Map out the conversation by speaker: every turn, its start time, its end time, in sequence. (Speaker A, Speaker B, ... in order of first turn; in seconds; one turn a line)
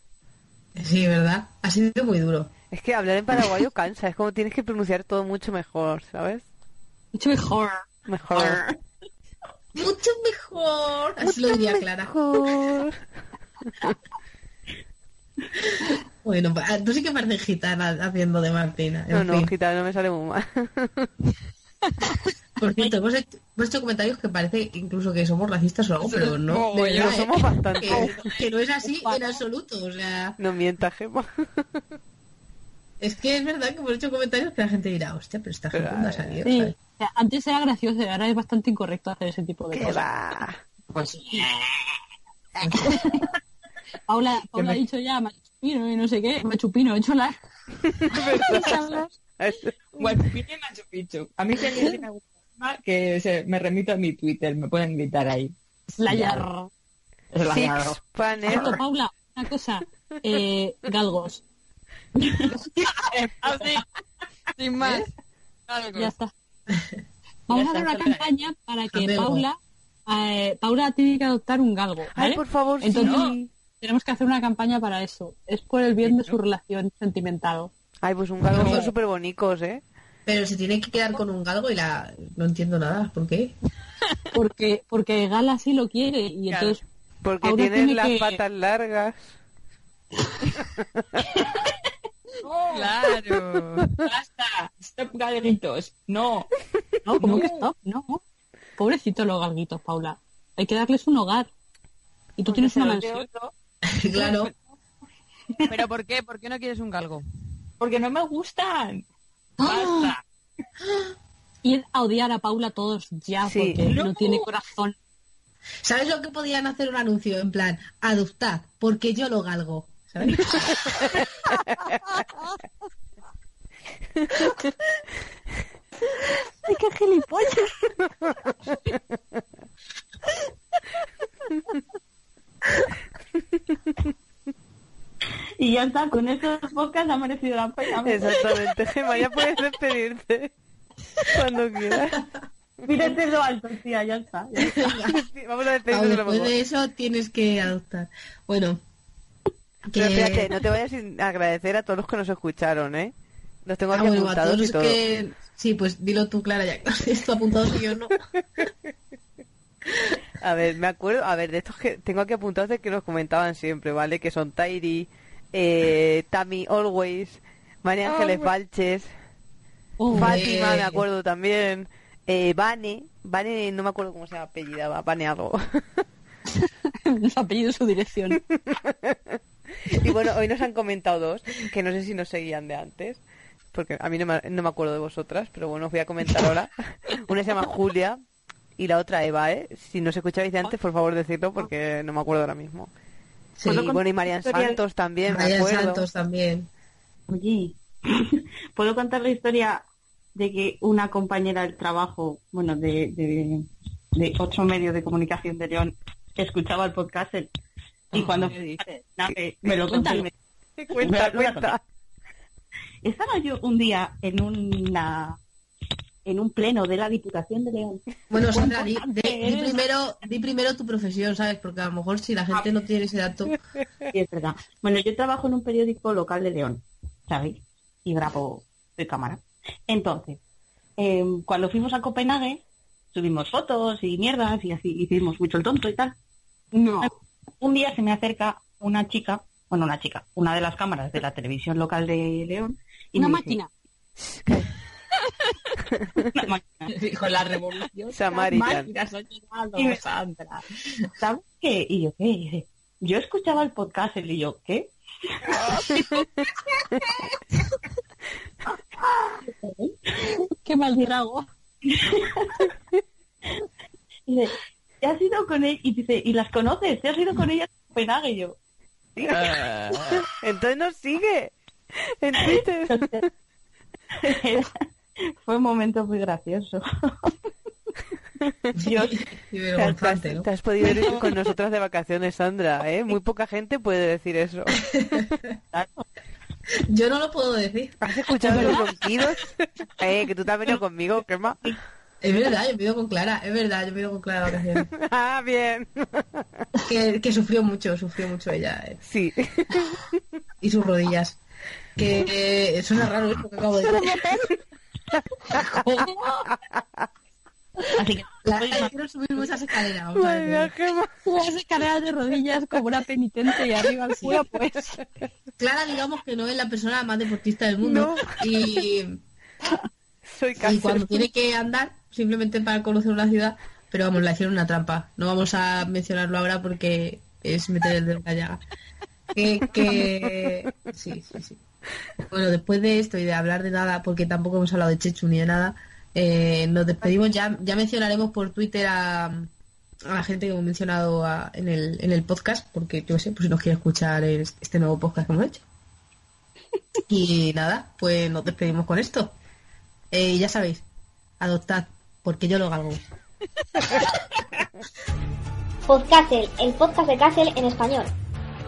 Speaker A: 0.8-2.5
Speaker B: 2.7-6.5
Speaker C: 7.2-8.6
Speaker B: 8.1-8.6
Speaker A: 9.8-12.2
Speaker B: 11.3-13.0
Speaker A: 15.6-19.5
Speaker B: 19.1-21.1
Speaker A: 22.6-30.4
Speaker D: 26.0-27.6
Speaker B: 27.0-28.3
Speaker C: 28.8-29.4
Speaker B: 30.4-31.3
Speaker A: 33.0-36.8
Speaker B: 35.7-36.4
Speaker C: 36.4-40.1
Speaker B: 39.7-40.6
Speaker E: 40.9-41.9
Speaker E: 42.7-42.9
Speaker C: 42.7-43.2
Speaker C: 44.1-47.4
Speaker E: 44.5-44.8
Speaker B: 48.1-50.3
Speaker C: 48.3-49.1
Speaker E: 50.0-55.5
Speaker C: 56.0-56.7
Speaker E: 56.0-56.5
Speaker E: 57.3-58.8
Speaker B: 57.5-58.8
Speaker C: 58.5-61.4
Speaker E: 62.6-63.8
Speaker D: 63.4-63.8
Speaker D: 64.6-65.1
Speaker D: 65.7-66.1
Speaker C: 66.0-66.3
Speaker C: 67.5-73.2
Speaker E: 67.5-68.3
Speaker A: 68.9-69.4
Speaker B: 72.2-73.5
Speaker E: 72.9-73.4
Speaker C: 73.8-77.7
Speaker E: 76.0-76.4
Speaker B: 78.0-79.8
Speaker A: 78.5-78.9
Speaker C: 78.6-78.9
Speaker A: 80.3-83.5
Speaker C: 84.3-86.8
Speaker D: 86.5-86.8
Speaker B: 87.2-89.2
Speaker C: 87.4-88.4
Speaker E: 92.4-93.2
Speaker D: 92.7-94.0
Speaker E: 94.0-96.5
Speaker C: 97.0-98.2
Speaker E: 97.2-97.7
Speaker D: 97.2-97.5
Speaker C: 98.8-101.5
Speaker C: 102.4-103.3
Speaker E: 102.5-103.5
Speaker A: 103.9-104.5
Speaker D: 105.7-107.2
Speaker E: 107.8-109.0
Speaker C: 109.6-110.1
Speaker E: 109.6-110.2
Speaker C: 111.6-115.0
Speaker B: 113.5-113.8
Speaker E: 113.8-114.5
Speaker A: 115.8-121.2
Speaker C: 126.7-127.7
Speaker F: 135.6-138.5
Speaker B: 138.0-140.5
Speaker B: 141.3-142.2
Speaker F: 142.9-144.8
Speaker A: 144.6-145.2
Speaker B: 145.1-146.5
Speaker A: 145.9-148.8
Speaker A: 149.9-150.5
Speaker B: 149.9-153.1
Speaker B: 153.7-155.0
Speaker A: 153.9-158.2
Speaker B: 160.4-169.1
Speaker C: 170.0-170.4
Speaker A: 170.1-171.0
Speaker B: 170.1-176.0
Speaker C: 176.9-178.4
Speaker B: 178.6-183.2
Speaker B: 183.7-188.2
Speaker B: 188.8-192.9
Speaker A: 193.6-193.9
Speaker F: 193.7-194.8
Speaker B: 193.7-196.1
Speaker A: 195.3-196.7
Speaker F: 197.3-199.8
Speaker F: 200.3-207.5
Speaker E: 208.1-209.0
Speaker F: 208.1-210.3
Speaker C: 209.9-210.3
Speaker B: 210.8-211.8
Speaker F: 210.9-211.8
Speaker F: 213.0-215.4
Speaker F: 216.2-219.8
Speaker A: 218.3-223.6
Speaker F: 224.1-230.4
Speaker F: 231.0-236.2
Speaker C: 236.7-237.1
Speaker F: 237.6-243.6
Speaker C: 243.2-243.7
Speaker B: 244.3-244.7
Speaker F: 246.3-247.0
Speaker E: 246.9-250.6
Speaker B: 248.1-248.9
Speaker F: 249.8-250.1
Speaker F: 251.2-254.9
Speaker F: 255.4-256.0
Speaker C: 260.6-261.5
Speaker F: 261.9-262.6
Speaker F: 264.3-268.6
Speaker E: 269.3-270.2
Speaker B: 270.1-271.5
Speaker B: 272.2-273.3
Speaker F: 272.4-273.2
Speaker F: 274.2-274.7
Speaker F: 275.4-277.3
Speaker F: 278.8-279.1
Speaker A: 278.8-280.5
Speaker B: 279.8-284.8
Speaker A: 284.9-285.5
Speaker F: 285.7-286.1
Speaker A: 286.9-288.8
Speaker B: 288.0-291.7
Speaker C: 288.5-288.8
Speaker A: 292.2-294.9
Speaker B: 294.9-296.4
Speaker A: 296.8-299.0
Speaker B: 299.0-300.2
Speaker A: 300.6-301.4
Speaker A: 302.0-304.3
Speaker C: 305.7-306.3
Speaker F: 308.0-308.9
Speaker A: 308.4-310.7
Speaker B: 310.1-311.1
Speaker C: 311.2-315.0
Speaker A: 315.6-319.2
Speaker B: 317.8-318.9
Speaker B: 320.3-321.3
Speaker A: 320.6-328.6
Speaker A: 329.4-331.6
Speaker B: 329.9-330.5
Speaker A: 332.2-339.5
Speaker A: 340.1-345.6
Speaker A: 347.1-349.3
Speaker A: 350.1-350.8
Speaker A: 351.4-353.0
Speaker G: 355.9-358.1